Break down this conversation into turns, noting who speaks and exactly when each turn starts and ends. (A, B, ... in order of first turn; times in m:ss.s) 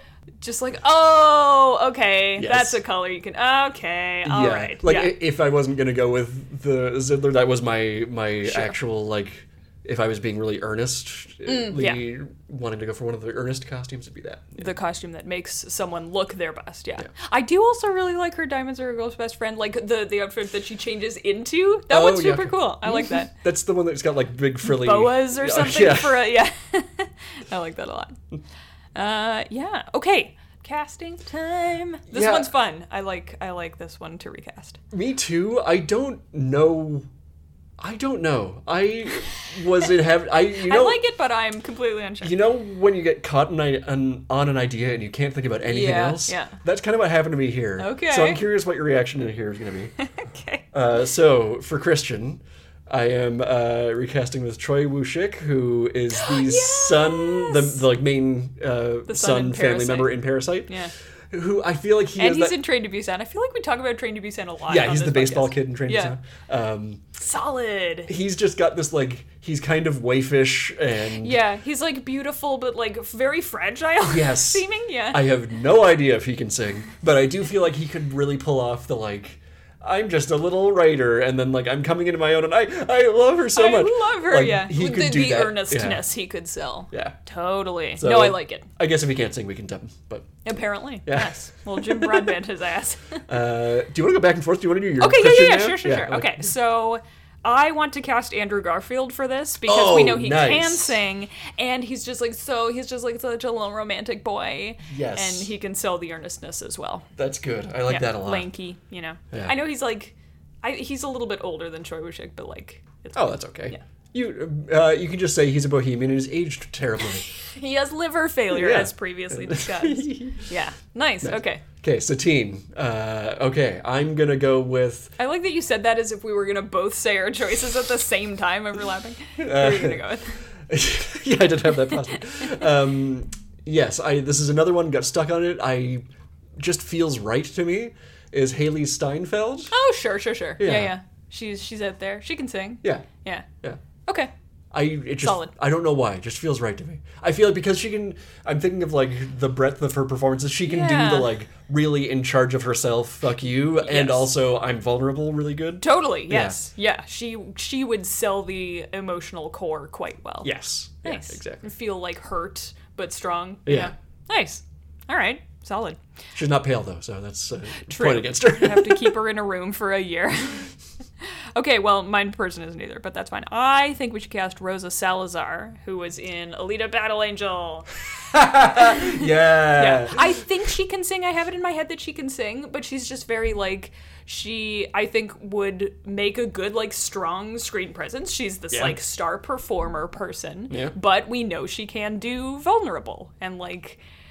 0:00.4-0:05.1 A
0:02.4-0:02.8 B
0:04.2-0:14.7 B
0:08.4-0:08.8 A
0:11.5-0:12.0 A
0:14.6-0:23.3 A
0:21.9-0:26.3 B
0:24.6-0:28.2 A
0:29.0-0:34.8 A
0:32.1-0:32.5 B
0:34.9-0:37.1 B
0:37.8-0:41.0 B
0:40.6-0:42.4 A
0:42.2-0:49.9 B
0:45.7-0:46.6 A
0:47.8-0:48.4 A
0:50.1-0:50.6 A
0:50.7-1:00.8 B
0:56.2-0:57.8 A
0:59.1-1:00.9 A
1:01.3-1:02.6 B
1:02.2-1:06.1 A
1:04.7-1:07.0 B
1:07.2-1:08.1 A
1:08.1-1:11.4 B
1:11.2-1:15.2 A
1:14.1-1:26.1 B
1:23.5-1:28.7 A
1:26.9-1:27.2 B
1:28.0-1:30.4 B
1:30.4-1:33.2 A
1:31.0-1:32.4 B
1:33.3-1:36.5 B
1:35.0-1:47.1 A
1:39.6-1:41.0 B
1:44.9-1:45.5 B
1:47.2-1:48.5 B
1:47.9-1:53.8 A
1:49.3-1:49.6 B
1:53.2-1:57.3 B
1:57.5-2:01.6 A
1:58.5-2:00.4 B
2:01.2-2:05.2 B
2:05.2-2:10.4 A
2:09.4-2:10.0 B
2:10.6-2:16.0 B
2:16.6-2:19.7 B
2:19.7-2:23.5 A
2:20.6-2:21.0 B
2:22.8-2:23.1 B
2:24.1-2:24.3 A
2:24.7-2:36.6 B
2:25.2-2:25.5 A
2:30.7-2:31.3 A
2:33.8-2:34.3 A
2:35.8-2:46.0 A
2:40.4-2:41.7 B
2:43.7-2:43.9 B
2:46.4-2:49.2 B
2:47.9-2:50.7 A
2:51.6-2:57.9 A
2:58.3-3:00.4 B
2:58.7-3:14.0 A
3:08.7-3:09.0 B
3:10.7-3:11.0 B